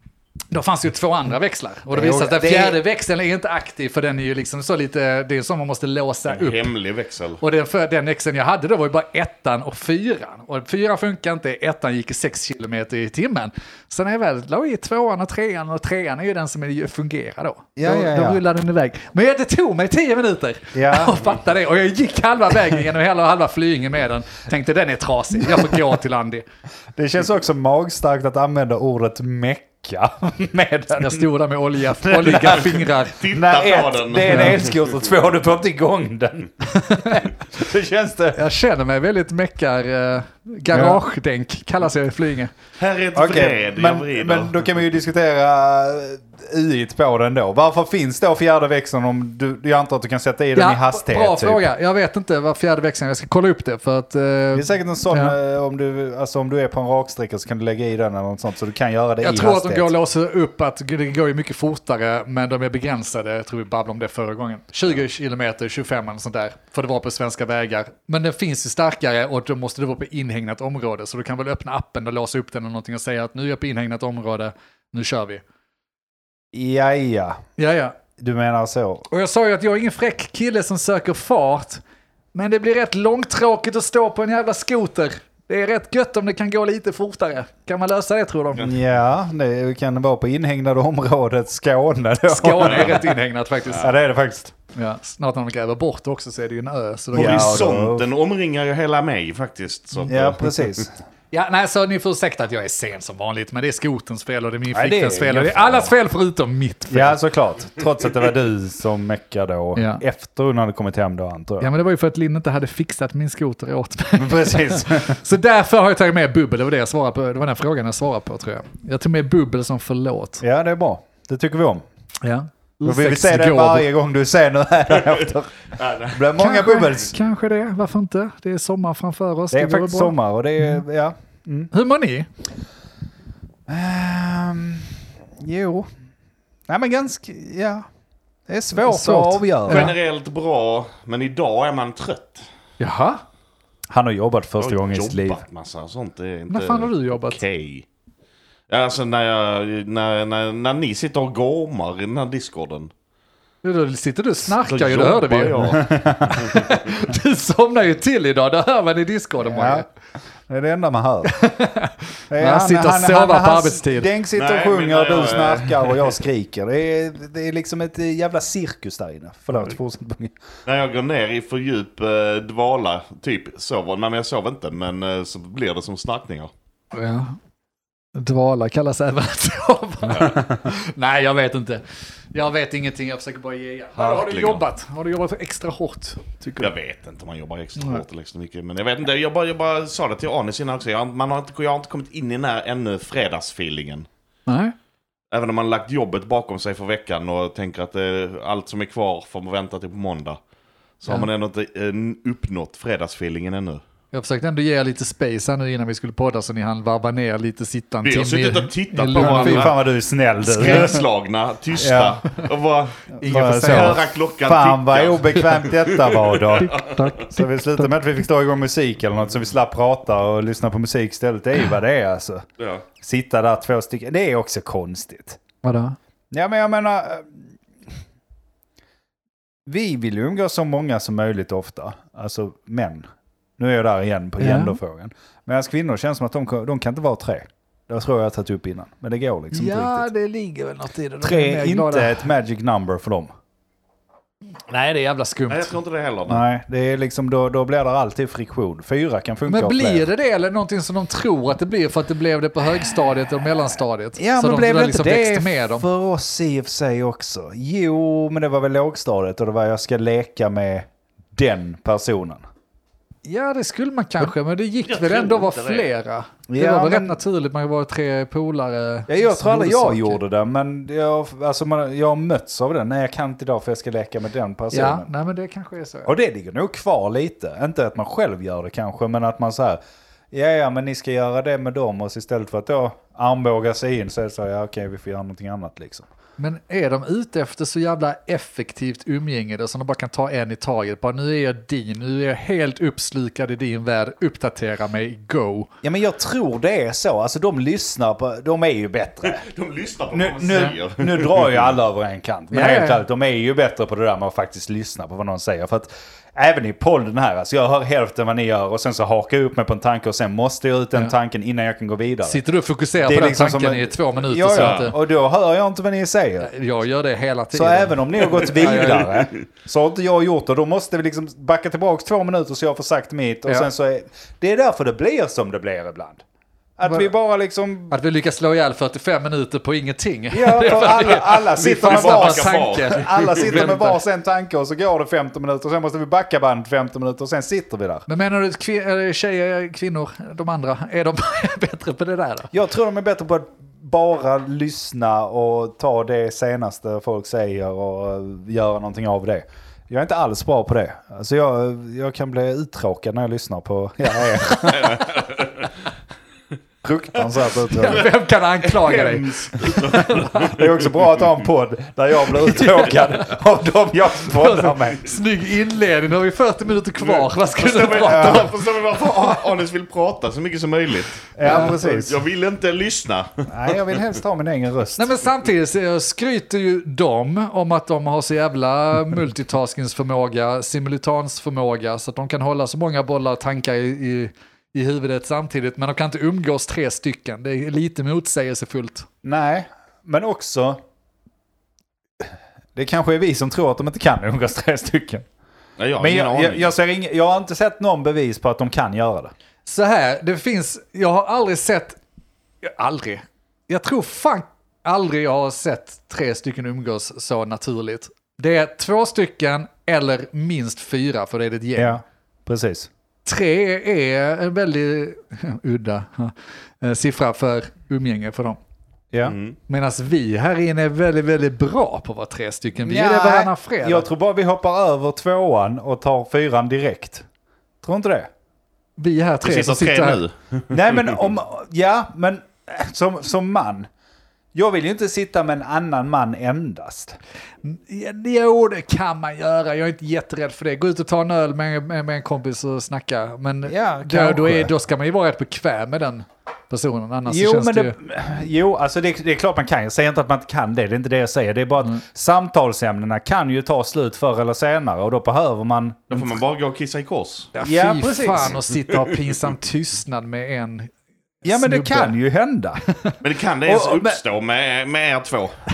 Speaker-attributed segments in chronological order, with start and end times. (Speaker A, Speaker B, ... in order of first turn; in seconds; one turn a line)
Speaker A: 0.5-6.7
Speaker B: 1.9-2.8
Speaker C: 6.3-7.4
Speaker A: 7.4-26.4
Speaker B: 17.8-18.4
Speaker B: 20.7-21.3
Speaker B: 25.5-25.8
Speaker B: 26.9-31.3
Speaker A: 31.0-33.2
Speaker B: 32.0-38.4
Speaker C: 33.1-35.0
Speaker A: 34.3-34.6
Speaker A: 36.8-37.2
Speaker A: 38.3-42.5
Speaker B: 40.7-41.0
Speaker C: 42.8-44.6
Speaker B: 43.1-51.6
Speaker A: 50.5-55.3
Speaker B: 54.5-59.9
Speaker A: 59.2-75.4
Speaker B: 76.5-77.4
Speaker A: 77.6-78.0
Speaker B: 78.2-79.1
Speaker A: 79.1-81.8
Speaker A: 82.3-88.7
Speaker B: 88.6-93.2
Speaker A: 92.3-93.9
Speaker C: 92.6-92.9
Speaker B: 93.8-94.5
Speaker A: 94.7-97.7
Speaker B: 97.1-98.1
Speaker C: 97.1-100.8
Speaker B: 100.1-101.0
Speaker A: 101.3-107.2
Speaker B: 104.7-105.9
Speaker B: 106.9-111.7
Speaker A: 109.8-110.0
Speaker A: 111.6-120.4
Speaker B: 114.2-115.2
Speaker B: 120.4-121.8
Speaker A: 122.2-123.8
Speaker B: 122.8-127.1
Speaker C: 125.8-126.2
Speaker A: 126.3-130.1
Speaker B: 129.5-131.7
Speaker A: 131.7-132.3
Speaker B: 133.7-135.9
Speaker B: 136.7-137.8
Speaker B: 138.5-139.9
Speaker A: 138.7-139.9
Speaker C: 139.7-142.5
Speaker A: 142.8-143.2
Speaker B: 143.9-145.4
Speaker C: 144.6-147.9
Speaker A: 146.5-147.4
Speaker C: 148.7-152.9
Speaker A: 153.6-159.9
Speaker C: 154.6-156.7
Speaker B: 155.7-156.6
Speaker B: 159.4-159.8
Speaker B: 160.5-161.3
Speaker A: 161.2-164.1
Speaker B: 162.3-170.3
Speaker C: 164.3-166.1
Speaker C: 170.7-176.5
Speaker A: 176.9-177.4
Speaker A: 178.1-186.7
Speaker C: 180.1-180.3
Speaker C: 184.0-184.6
Speaker C: 186.6-194.1
Speaker A: 187.8-188.0
Speaker A: 194.4-194.7
Speaker C: 195.3-200.4
Speaker C: 201.0-203.8
Speaker A: 204.1-209.8
Speaker C: 208.0-209.7
Speaker B: 209.1-210.9
Speaker C: 210.4-213.0
Speaker A: 210.5-211.0
Speaker B: 211.8-212.2
Speaker B: 213.2-222.4
Speaker A: 213.2-214.0
Speaker C: 213.6-217.1
Speaker A: 216.6-217.9
Speaker C: 222.6-222.8
Speaker B: 223.0-225.4
Speaker A: 225.6-225.9
Speaker B: 226.3-227.5
Speaker B: 229.7-233.1
Speaker B: 233.6-240.1
Speaker A: 234.4-234.8
Speaker A: 239.5-242.3
Speaker B: 241.2-243.3
Speaker A: 244.7-245.8
Speaker C: 245.5-246.4
Speaker B: 246.3-250.1
Speaker A: 249.5-255.9
Speaker B: 254.2-262.4
Speaker A: 263.2-270.2
Speaker C: 264.8-265.9
Speaker B: 266.5-267.2
Speaker B: 269.1-275.1
Speaker A: 274.7-276.1
Speaker B: 276.1-279.8
Speaker B: 280.3-286.1
Speaker A: 286.4-295.7
Speaker B: 295.8-299.4
Speaker C: 299.2-301.7
Speaker B: 300.1-312.4
Speaker A: 302.5-303.0
Speaker A: 312.2-314.9
Speaker B: 313.0-316.5
Speaker C: 314.5-314.9
Speaker A: 316.4-319.2
Speaker B: 317.5-326.2
Speaker C: 318.6-319.1
Speaker B: 326.8-327.9
Speaker A: 326.9-327.1
Speaker A: 327.9-334.0
Speaker B: 330.3-338.0
Speaker C: 331.5-333.6
Speaker A: 338.1-342.5
Speaker B: 342.5-355.0
Speaker A: 354.3-354.9
Speaker C: 354.7-355.7
Speaker B: 356.8-358.1
Speaker A: 357.7-360.5
Speaker C: 358.6-360.8
Speaker B: 360.2-365.2
Speaker A: 364.2-368.5
Speaker C: 367.0-374.0
Speaker B: 368.0-368.5
Speaker B: 371.4-372.2
Speaker A: 371.4-371.8
Speaker B: 373.5-375.1
Speaker A: 375.0-389.1
Speaker B: 389.2-390.8
Speaker B: 392.2-395.2
Speaker C: 395.8-396.7
Speaker B: 396.0-399.3
Speaker A: 399.6-402.0
Speaker A: 402.6-412.0
Speaker B: 411.8-412.9
Speaker A: 413.2-418.6
Speaker C: 419.2-419.6
Speaker A: 419.7-424.1
Speaker B: 422.8-427.2
Speaker B: 427.8-428.3
Speaker A: 429.0-430.2
Speaker C: 429.4-431.3
Speaker B: 430.7-433.9
Speaker B: 434.5-437.2
Speaker A: 437.6-447.9
Speaker B: 443.6-444.7
Speaker B: 447.3-456.4
Speaker C: 456.1-457.5
Speaker A: 457.5-460.9
Speaker B: 457.6-458.6
Speaker C: 458.7-459.2
Speaker A: 461.4-462.1
Speaker B: 461.4-462.8
Speaker C: 463.2-465.6
Speaker B: 463.6-464.2